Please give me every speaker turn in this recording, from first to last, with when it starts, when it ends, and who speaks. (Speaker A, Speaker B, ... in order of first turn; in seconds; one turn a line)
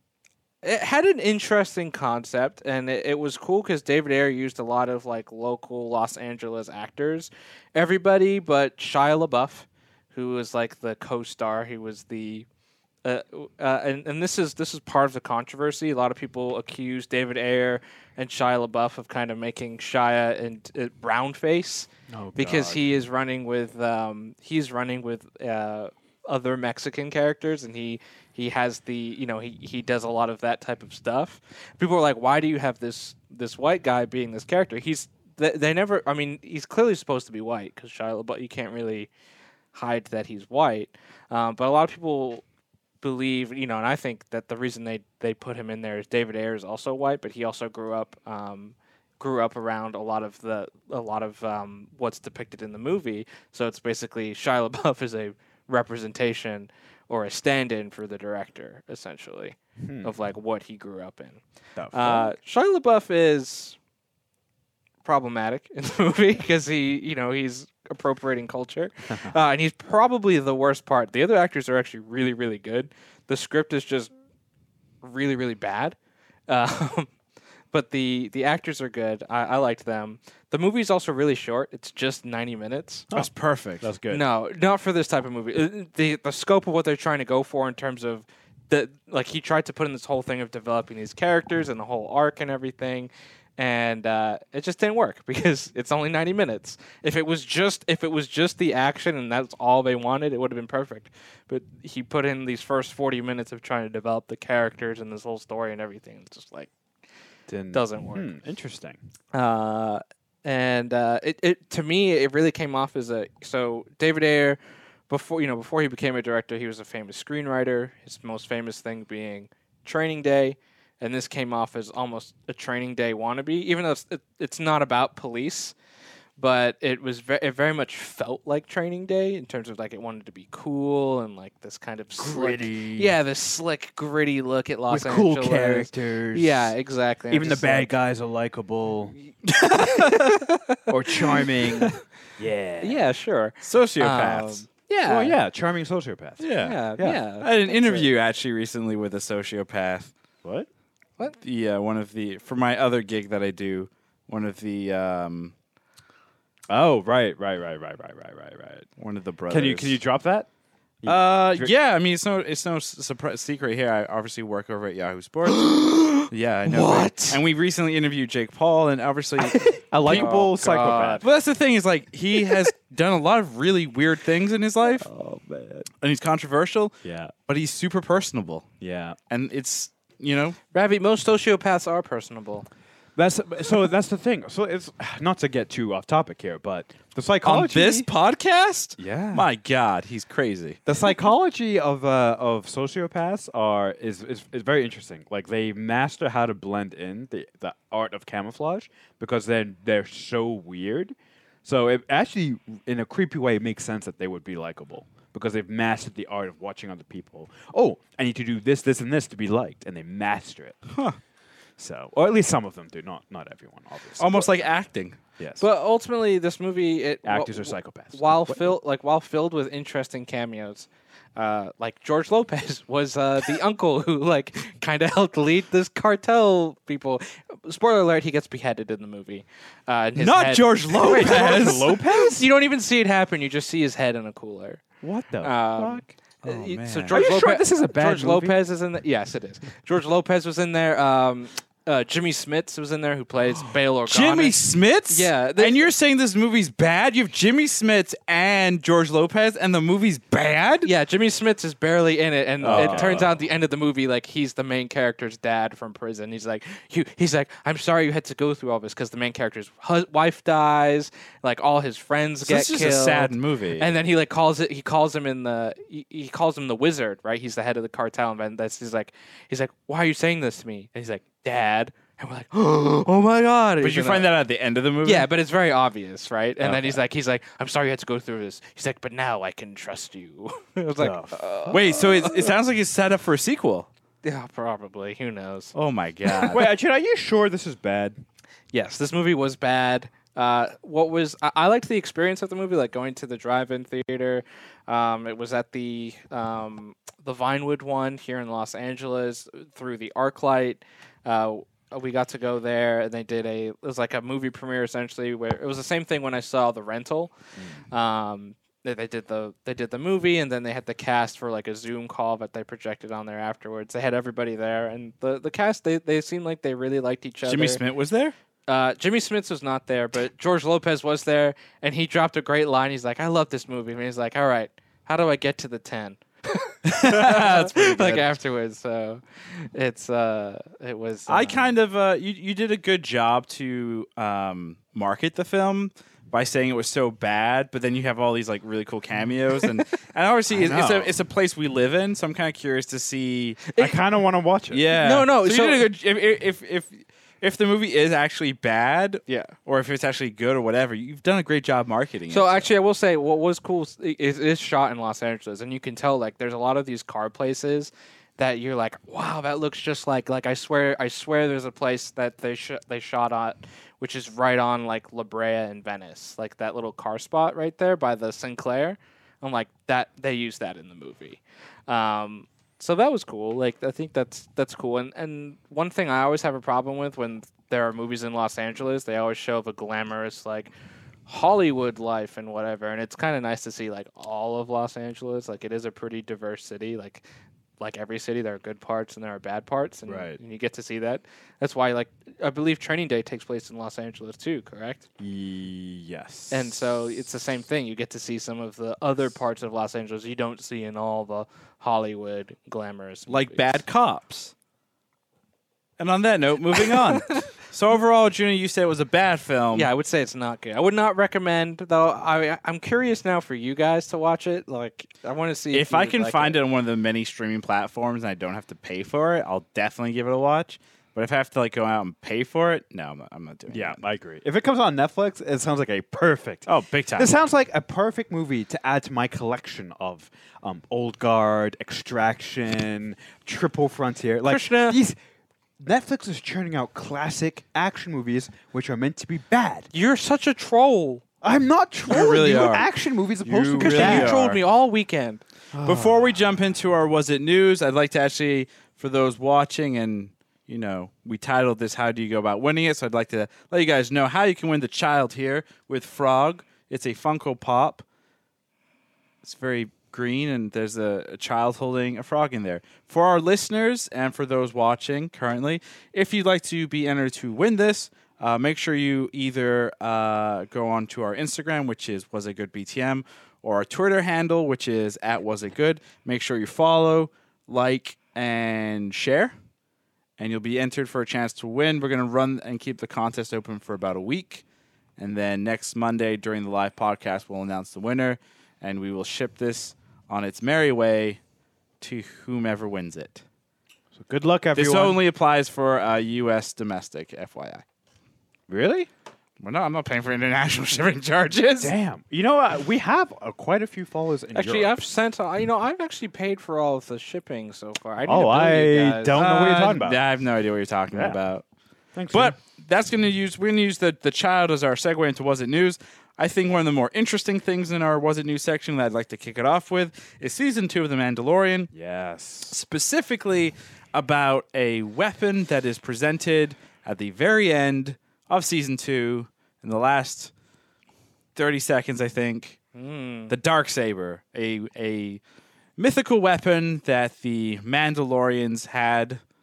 Speaker A: 0.6-12.4
Speaker A: 13.0-39.1
Speaker B: 22.1-22.8
Speaker A: 39.7-42.4
Speaker A: 43.0-61.4
Speaker B: 59.8-60.1
Speaker B: 61.8-62.4
Speaker A: 61.9-63.8
Speaker A: 65.0-74.1
Speaker A: 75.0-76.0
Speaker A: 76.5-77.1
Speaker A: 77.7-83.1
Speaker C: 83.1-83.9
Speaker B: 83.8-84.2
Speaker A: 84.1-106.7
Speaker B: 107.5-109.0
Speaker A: 107.7-108.3
Speaker A: 109.3-125.7
Speaker A: 126.4-137.9
Speaker B: 132.2-133.2
Speaker B: 134.9-136.7
Speaker B: 137.3-139.2
Speaker C: 139.5-140.4
Speaker A: 139.6-142.0
Speaker B: 140.9-143.1
Speaker A: 142.8-145.4
Speaker C: 143.6-144.6
Speaker B: 145.1-147.2
Speaker C: 146.4-146.8
Speaker A: 146.6-148.1
Speaker C: 147.4-150.1
Speaker C: 151.3-155.5
Speaker B: 156.7-158.9
Speaker C: 159.0-160.0
Speaker B: 159.5-160.5
Speaker B: 161.0-161.7
Speaker C: 161.1-165.7
Speaker A: 165.5-167.4
Speaker C: 166.3-170.3
Speaker A: 169.5-171.2
Speaker B: 169.9-171.2
Speaker C: 171.2-175.1
Speaker B: 175.0-175.8
Speaker C: 176.0-176.9
Speaker B: 177.0-177.3
Speaker C: 177.4-178.7
Speaker B: 178.8-179.2
Speaker C: 179.3-180.6
Speaker A: 180.7-182.7
Speaker B: 183.2-188.1
Speaker C: 187.4-190.8
Speaker B: 189.0-189.4
Speaker B: 190.8-210.8
Speaker C: 210.9-211.2
Speaker B: 211.8-214.7
Speaker C: 214.2-215.2
Speaker B: 215.4-215.7
Speaker A: 215.6-234.8
Speaker B: 217.2-218.8
Speaker C: 230.2-232.0
Speaker B: 230.9-232.5
Speaker B: 235.0-236.0
Speaker A: 235.4-245.9
Speaker C: 236.4-237.2
Speaker B: 237.1-238.6
Speaker C: 244.0-250.9
Speaker A: 250.8-274.3
Speaker B: 252.6-253.3
Speaker C: 252.6-253.3
Speaker C: 262.4-263.9
Speaker C: 273.8-275.3
Speaker A: 275.0-282.5
Speaker C: 276.6-277.0
Speaker B: 281.0-281.4
Speaker C: 281.7-283.9
Speaker A: 284.2-285.7
Speaker C: 285.7-286.7
Speaker A: 286.3-286.5
Speaker B: 286.5-288.2
Speaker A: 288.7-307.3
Speaker B: 307.6-307.8
Speaker A: 307.9-317.8
Speaker C: 317.4-318.3
Speaker A: 318.7-331.7
Speaker C: 326.9-328.3
Speaker C: 331.3-343.7
Speaker B: 340.5-341.1
Speaker B: 343.8-344.9
Speaker C: 344.7-352.7
Speaker A: 345.0-345.9
Speaker A: 349.3-349.5
Speaker A: 352.3-380.7
Speaker A: 381.3-387.2
Speaker A: 387.8-395.0
Speaker B: 390.1-390.4
Speaker B: 395.2-396.8
Speaker A: 396.5-403.8
Speaker C: 403.3-404.5
Speaker C: 406.0-409.9
Speaker A: 406.8-407.2
Speaker A: 409.7-416.6
Speaker C: 415.7-424.0
Speaker B: 423.7-435.2
Speaker C: 426.6-427.3
Speaker A: 434.5-435.0
Speaker B: 435.8-439.9
Speaker A: 439.9-441.2
Speaker B: 441.4-444.6
Speaker C: 442.1-442.9
Speaker C: 443.4-444.6
Speaker A: 443.8-445.4
Speaker B: 445.7-446.5
Speaker C: 445.8-458.0
Speaker C: 459.4-479.5
Speaker C: 480.4-484.6
Speaker C: 485.2-491.4
Speaker C: 492.0-493.4
Speaker B: 494.1-495.2
Speaker C: 494.7-497.8
Speaker B: 498.7-499.1
Speaker C: 499.6-501.9
Speaker B: 501.8-504.9
Speaker A: 504.5-509.4
Speaker B: 508.2-510.2
Speaker C: 509.3-511.6
Speaker B: 511.1-511.4
Speaker B: 512.1-512.5
Speaker C: 512.3-521.9
Speaker B: 521.9-522.8
Speaker C: 522.7-530.5
Speaker C: 531.5-532.8
Speaker A: 532.9-533.5
Speaker C: 533.5-535.4
Speaker C: 536.0-539.4